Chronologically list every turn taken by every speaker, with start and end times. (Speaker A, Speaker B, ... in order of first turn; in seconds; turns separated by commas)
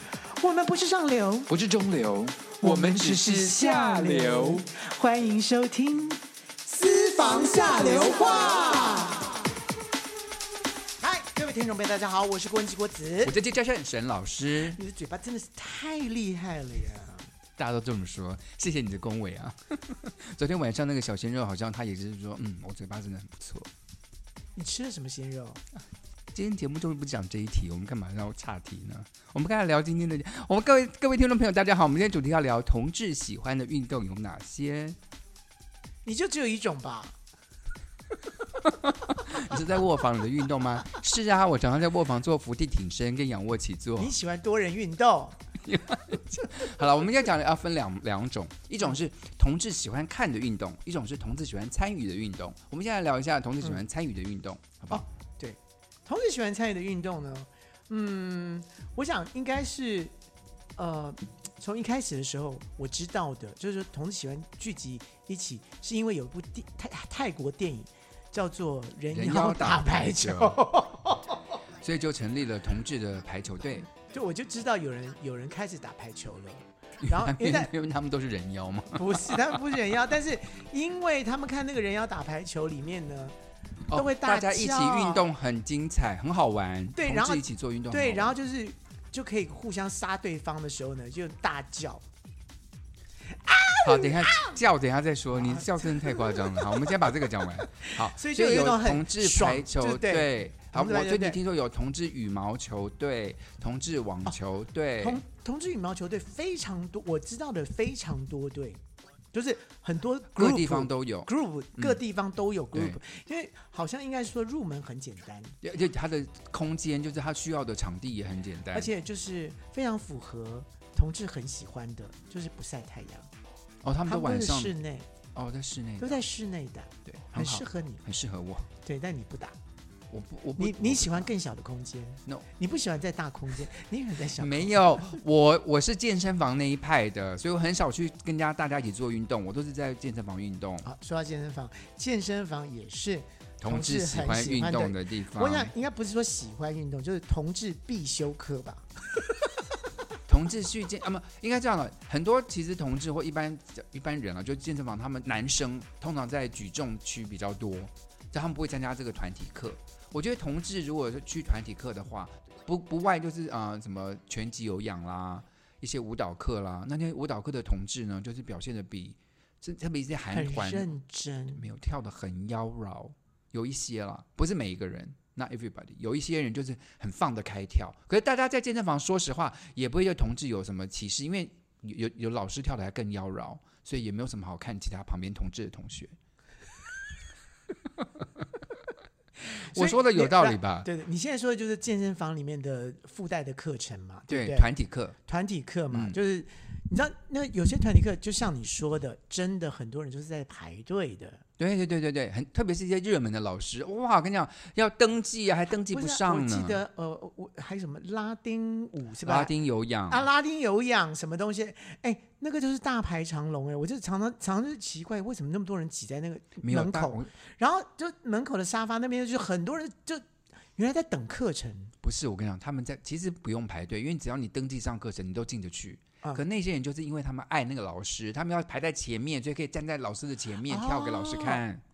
Speaker A: 0.3-1.5, Speaker B: 1.5-4.7, Speaker A: 2.6-9.4, Speaker B: 7.8-8.9, Speaker A: 11.0-13.3, Speaker B: 13.2-14.8, Speaker A: 14.7-17.3, Speaker B: 17.6-23.7, Speaker A: 24.6-25.6, Speaker B: 26.3-35.0, Speaker A: 36.0-37.2, Speaker B: 38.6-44.1, Speaker A: 44.0-45.4, Speaker B: 45.6-55.0, Speaker A: 54.9-60.1, Speaker A: 60.8-71.6, Speaker B: 69.1-70.6, Speaker B: 71.8-73.9, Speaker A: 74.0-77.7, Speaker B: 77.0-79.6, Speaker A: 78.9-83.3, Speaker B: 83.9-88.3, Speaker A: 83.9-85.3, Speaker A: 86.9-92.0, Speaker A: 93.4-94.5, Speaker B: 93.8-105.2, Speaker A: 95.3-97.1, Speaker A: 97.7-101.4, Speaker A: 105.0-108.8, Speaker A: 109.3-115.6, Speaker B: 110.3-112.0, Speaker B: 112.7-113.0, Speaker B: 115.6-118.9, Speaker A: 118.7-123.3, Speaker B: 123.8-124.8, Speaker A: 124.1-125.1, Speaker B: 125.3-126.2, Speaker A: 126.0-128.0, Speaker B: 127.0-128.7, Speaker A: 128.8-129.6, Speaker B: 130.1-131.3, Speaker A: 130.6-135.2, Speaker B: 134.4-140.9, Speaker A: 140.8-148.9, Speaker B: 143.6-145.7, Speaker B: 150.3-170.9, Speaker A: 170.3-171.6, Speaker B: 171.5-186.2, Speaker B: 188.0-188.4, Speaker A: 189.5-194.7, Speaker B: 189.6-190.9, Speaker B: 194.3-195.1, Speaker A: 195.3-201.4, Speaker B: 195.9-196.2, Speaker B: 201.6-206.8, Speaker A: 205.9-209.5, Speaker B: 209.2-210.3, Speaker A: 210.1-221.9, Speaker B: 216.6-217.3, Speaker B: 222.0-231.8, Speaker A: 230.7-231.6